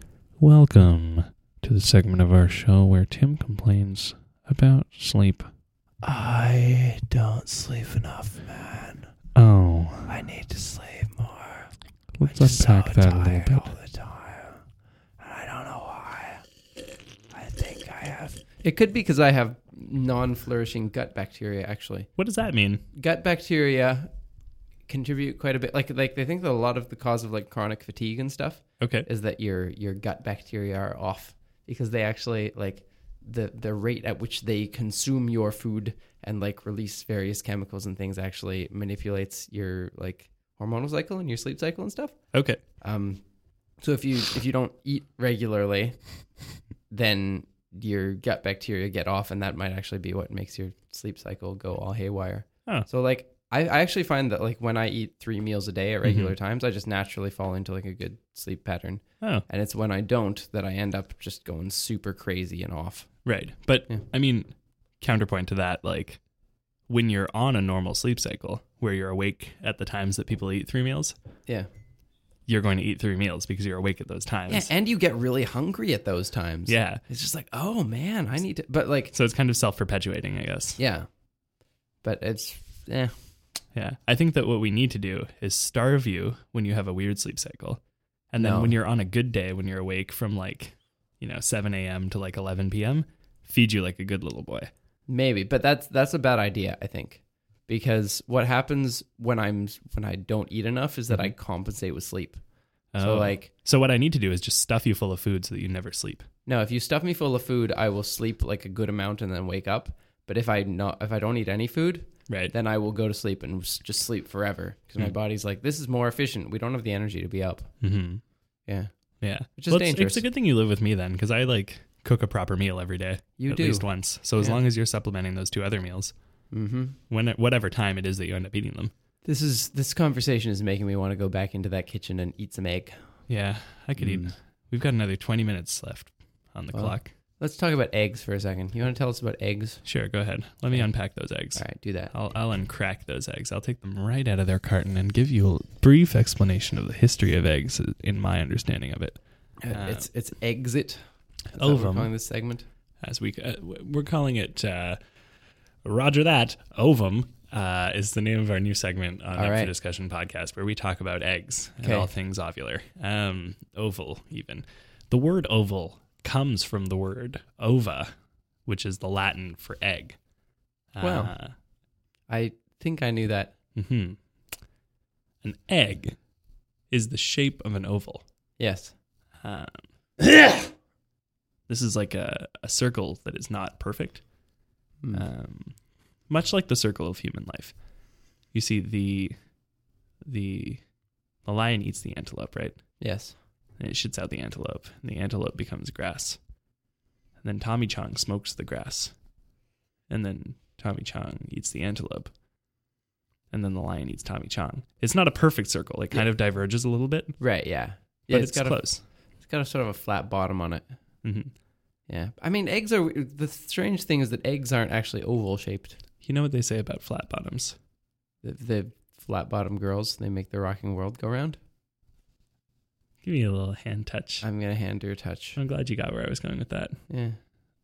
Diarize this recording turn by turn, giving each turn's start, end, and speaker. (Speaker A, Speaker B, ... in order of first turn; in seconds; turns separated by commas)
Speaker A: 0.4-5.5, Speaker B: 6.0-9.1, Speaker A: 9.3-10.1, Speaker B: 10.1-14.6, Speaker A: 12.2-13.7, Speaker B: 15.2-16.4, Speaker B: 17.3-22.1, Speaker C: 22.2-22.8, Speaker B: 22.9-24.1, Speaker B: 24.9-43.2, Speaker C: 28.8-29.1, Speaker C: 42.3-42.6, Speaker B: 43.8-46.4, Speaker B: 46.9-63.3, Speaker C: 56.0-56.3, Speaker C: 63.2-66.2, Speaker C: 66.9-71.1, Speaker C: 72.5-74.7, Speaker B: 74.5-79.1, Speaker C: 76.7-77.0, Speaker C: 79.1-80.8, Speaker B: 80.8-81.2, Speaker B: 82.0-83.1, Speaker C: 83.7-94.7, Speaker B: 88.4-88.7, Speaker B: 95.1-103.5, Speaker C: 102.9-106.2, Speaker B: 106.5-117.8, Speaker C: 112.3-112.5, Speaker C: 117.8-118.2, Speaker B: 118.7-120.2, Speaker C: 119.2-126.2, Speaker B: 123.4-124.6, Speaker B: 126.5-127.0, Speaker C: 127.1-128.9, Speaker B: 129.2-133.2, Speaker C: 133.3-137.1, Speaker B: 134.0-134.3, Speaker B: 136.7-139.9, Speaker C: 139.8-150.1, Speaker B: 140.7-140.9, Speaker B: 141.5-142.1, Speaker B: 149.6-152.7, Speaker C: 151.6-152.1, Speaker C: 153.0-155.0, Speaker C: 155.8-168.1, Speaker B: 159.3-159.7, Speaker B: 161.8-162.1, Speaker C: 168.7-170.2, Speaker C: 170.9-171.5, Speaker B: 171.0-171.3, Speaker B: 172.3-173.6, Speaker C: 173.8-174.2, Speaker C: 175.4-176.2, Speaker C: 176.9-178.2, Speaker B: 178.6-178.9, Speaker C: 179.4-179.8, Speaker C: 181.7-184.2, Speaker B: 185.0-185.2, Speaker C: 185.1-187.8, Speaker C: 188.5-189.4, Speaker C: 190.2-190.9, Speaker C: 191.4-193.0, Speaker B: 193.0-193.4, Speaker C: 193.8-196.4, Speaker C: 197.4-199.2, Speaker C: 200.1-202.3, Speaker C: 203.5-207.5, Speaker B: 207.4-210.9, Speaker C: 208.3-209.0, Speaker C: 211.2-211.5, Speaker B: 212.1-216.0, Speaker C: 216.2-217.8, Speaker B: 218.4-221.6, Speaker C: 223.2-224.4, Speaker B: 224.4-225.6, Speaker C: 225.6-227.0, Speaker B: 227.1-227.4